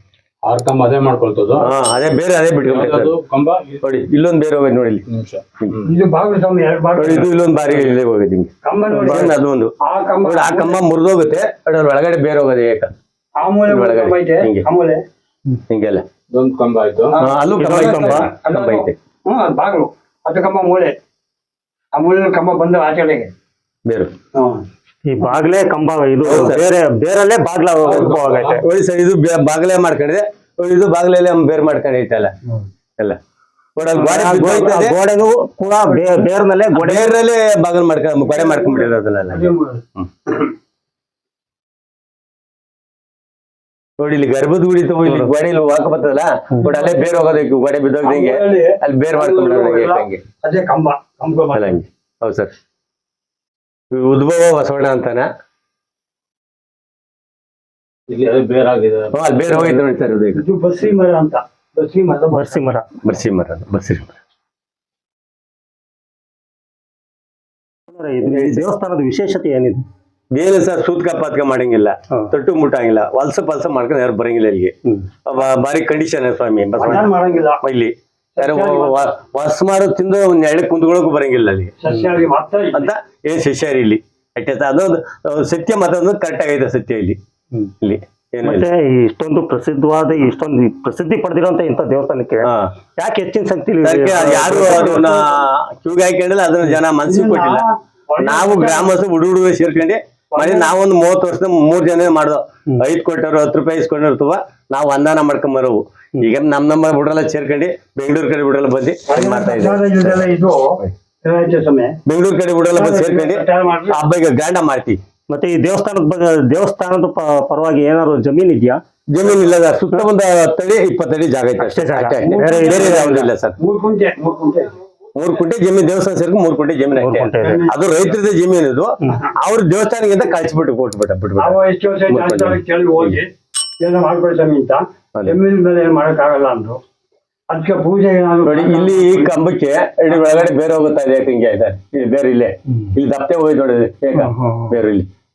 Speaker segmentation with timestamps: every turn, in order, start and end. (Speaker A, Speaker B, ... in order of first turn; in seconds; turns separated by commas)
Speaker A: 0.4-1.7, Speaker B: 1.6-3.2, Speaker A: 2.6-3.8, Speaker B: 3.8-5.0, Speaker A: 5.1-5.9, Speaker C: 5.9-7.2, Speaker B: 7.0-8.5, Speaker C: 8.6-9.3, Speaker D: 8.9-9.3, Speaker B: 9.1-9.7, Speaker C: 9.8-10.8, Speaker B: 10.2-12.9, Speaker C: 13.4-15.0, Speaker B: 13.7-14.7, Speaker B: 15.7-16.1, Speaker A: 16.3-17.1, Speaker C: 17.2-20.9, Speaker B: 17.2-18.9, Speaker D: 17.6-18.4, Speaker C: 21.9-23.3, Speaker B: 23.9-24.1, Speaker C: 24.4-24.6, Speaker D: 25.1-28.6, Speaker B: 26.2-26.7, Speaker C: 27.8-28.4, Speaker B: 28.6-32.3, Speaker B: 33.8-35.0, Speaker D: 34.0-37.2, Speaker B: 36.7-40.1, Speaker C: 38.3-39.8, Speaker B: 44.0-50.2, Speaker C: 46.9-47.2, Speaker C: 48.0-51.6, Speaker B: 51.5-52.5, Speaker B: 53.9-55.3, Speaker A: 58.1-59.8, Speaker B: 59.1-60.4, Speaker C: 60.4-62.6, Speaker D: 62.4-62.9, Speaker B: 63.0-64.1, Speaker D: 67.9-69.8, Speaker B: 68.3-68.7, Speaker B: 70.3-74.7, Speaker B: 75.3-81.7, Speaker C: 76.8-77.6, Speaker C: 78.4-79.0, Speaker C: 81.8-82.9, Speaker B: 82.7-87.2, Speaker B: 87.8-88.7, Speaker D: 88.4-95.1, Speaker B: 92.4-92.7, Speaker B: 93.8-97.6, Speaker C: 97.1-98.9, Speaker B: 98.2-110.3, Speaker C: 100.3-100.7, Speaker C: 109.1-112.0, Speaker B: 112.1-115.0, Speaker C: 112.7-114.0, Speaker D: 115.3-118.8, Speaker B: 119.1-123.6, Speaker D: 121.6-123.3, Speaker C: 122.3-122.9, Speaker C: 123.6-124.7, Speaker B: 125.2-133.2, Speaker D: 127.0-127.6, Speaker C: 127.4-127.7, Speaker C: 131.4-133.3, Speaker C: 133.8-136.8, Speaker C: 137.5-139.3, Speaker B: 138.5-145.1, Speaker C: 140.1-140.4, Speaker D: 144.2-144.7